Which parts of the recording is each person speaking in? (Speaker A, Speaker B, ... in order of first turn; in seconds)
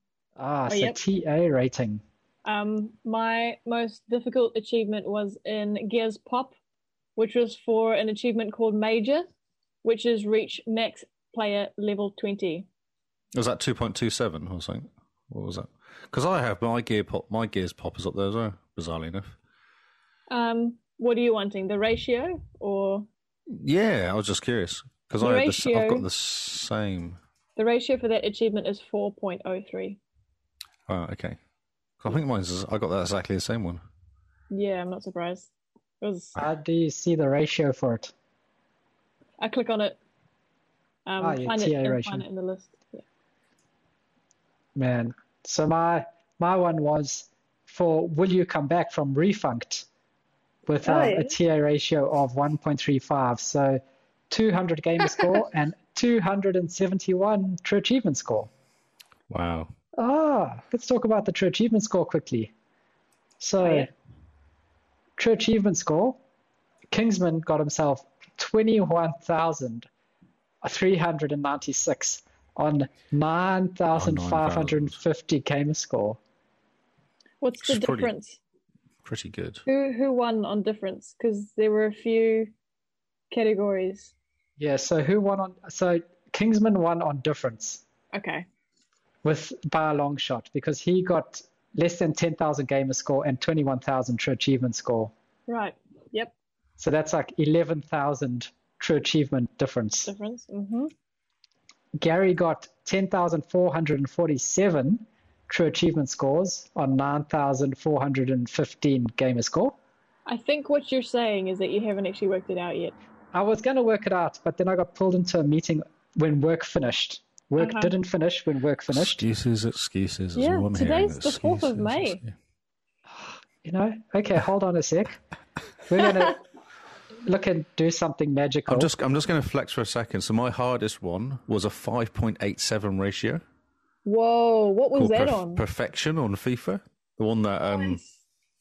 Speaker A: 0.4-2.0, 36.4-38.1, 41.2-42.2, 44.8-49.9, 50.7-58.5, 60.0-62.5, 63.4-63.9, 65.2-66.2, 66.9-69.9, 70.6-76.2, 84.6-87.8, 89.2-95.1, 96.8-100.1, 102.0-109.8, 113.3-119.2, 123.2-125.2, 125.9-126.4, 127.2-128.9
Speaker B: 0.7-1.0, 2.4-6.5, 7.2-9.2, 9.8-12.7, 20.3-23.1, 25.2-26.1, 27.6-30.0, 34.5-36.4, 39.4-40.0, 41.0-43.0, 50.8-51.3, 63.6-63.9, 77.4-78.4, 79.7-82.5, 83.3-84.1, 88.1-88.5, 95.5-96.3, 100.1-100.9, 110.2-112.9, 117.6-117.9, 120.3-122.2, 134.0-135.6, 137.7-138.0
Speaker C: 13.3-19.4, 23.5-27.2, 30.9-31.4, 32.0-33.8, 59.3-59.7, 73.9-75.0, 77.6-78.1, 79.0-79.6, 118.9-122.3, 128.7-133.4, 134.9-138.0